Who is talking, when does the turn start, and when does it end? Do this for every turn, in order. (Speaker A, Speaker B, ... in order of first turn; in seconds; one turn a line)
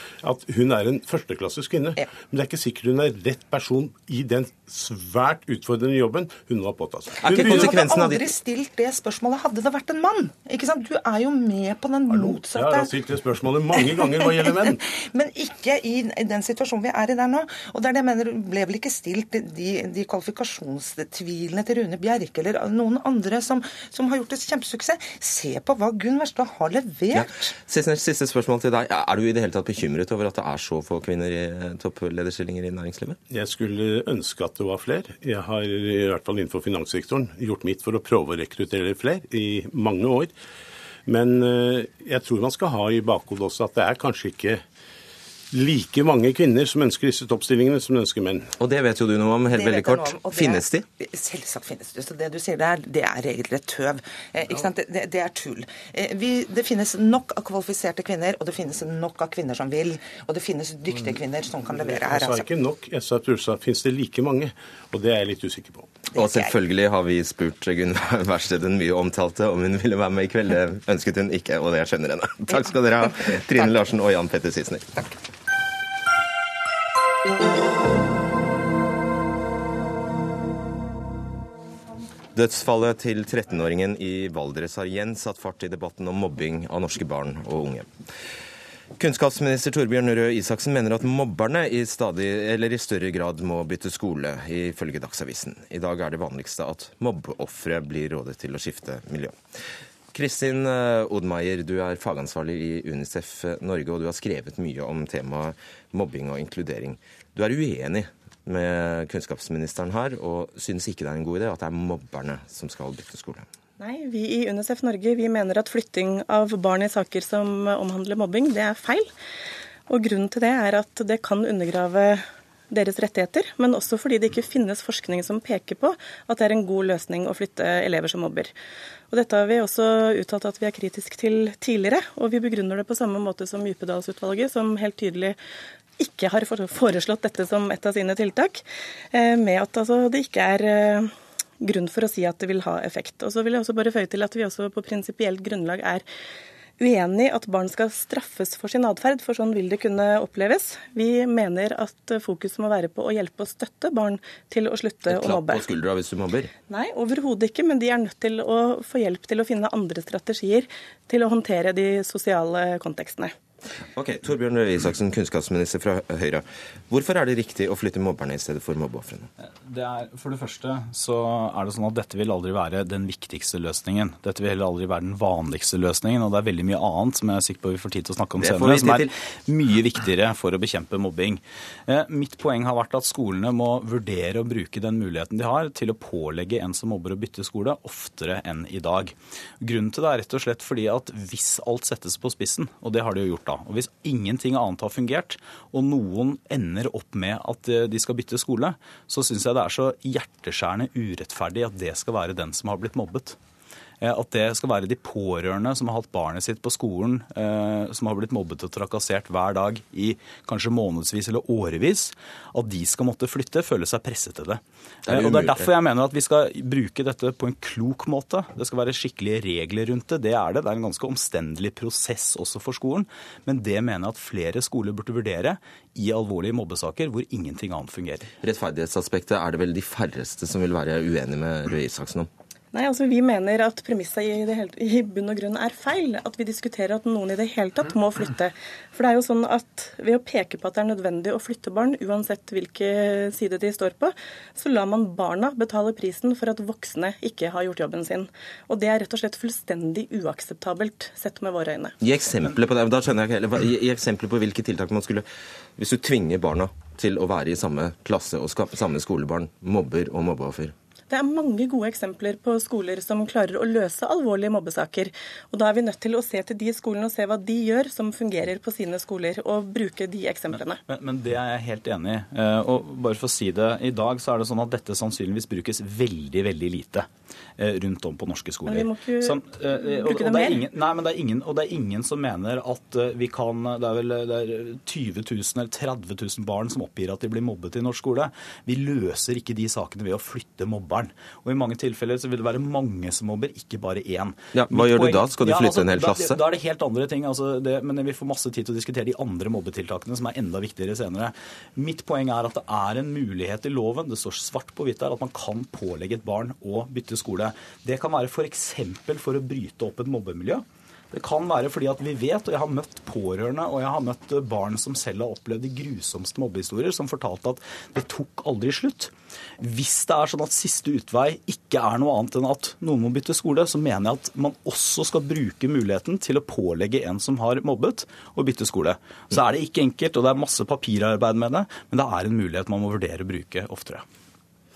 Speaker A: 0.2-7.8
Speaker B: 7.2-8.3
Speaker C: 7.3-12.9
Speaker A: 12.1-14.8
Speaker C: 14.2-27.5
Speaker B: 27.1-33.2
Speaker A: 33.3-40.3
Speaker A: 41.1-44.6
Speaker A: 45.5-48.5
Speaker B: 48.6-50.8
Speaker C: 49.5-62.4
Speaker A: 61.8-65.9
Speaker C: 66.1-66.5
Speaker B: 66.1-75.0
Speaker B: 82.3-87.9
Speaker B: 89.0-99.3
Speaker B: 100.1-113.5
Speaker D: 113.8-119.1
Speaker D: 119.9-128.5
Speaker D: 129.1-135.4
Speaker D: 136.0-146.1
Speaker D: 146.8-155.6
Speaker B: 155.1-156.5
Speaker D: 156.7-163.3
Speaker B: 164.0-169.3
Speaker E: 169.4-203.4
Speaker B: 178.4-179.1
Speaker E: 204.0-228.3
Speaker B: 215.1-215.7
Speaker B: 228.4-232.3
Speaker D: 232.7-251.9
Speaker B: 252.0-255.2
Speaker B: 255.8-260.7
Speaker D: 261.1-270.8
Speaker E: 270.5-277.1
Speaker E: 277.6-334.0
Speaker D: 278.7-280.6
Speaker B: 294.5-296.4